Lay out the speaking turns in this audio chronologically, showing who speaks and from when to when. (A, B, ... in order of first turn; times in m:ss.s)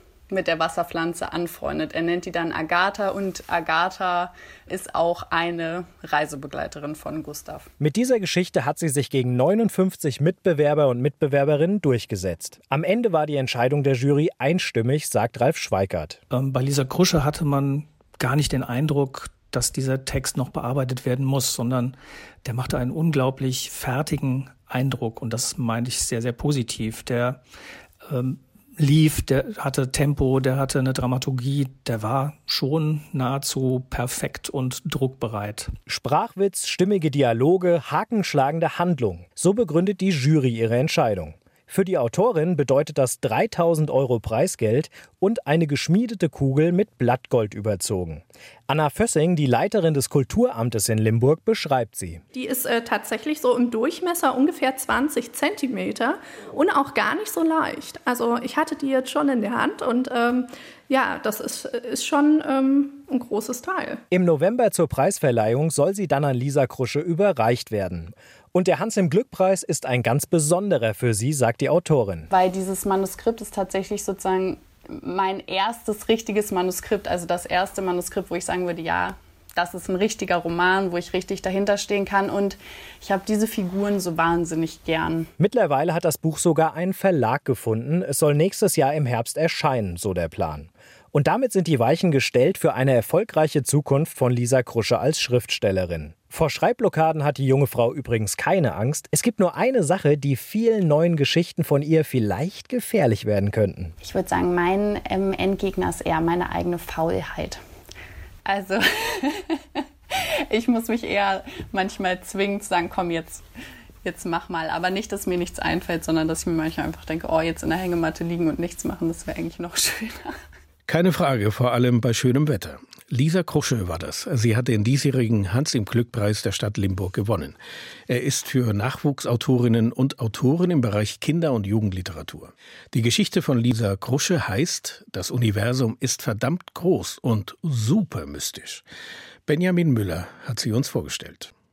0:00.3-0:07.7 A
0:07.8-0:16.2 B
0:16.3-0:27.4 C
0:28.1-0:35.8 C
0:35.9-0:52.2 B
0:52.3-1:04.0 D
1:04.1-1:12.3 B
1:12.3-1:25.3 A
1:25.4-1:44.0 B
1:44.0-1:47.6 A
1:48.5-1:49.6 A
1:50.1-1:53.4 A
1:54.0-2:00.4 A
2:00.9-2:18.8 E
2:19.5-2:21.5 E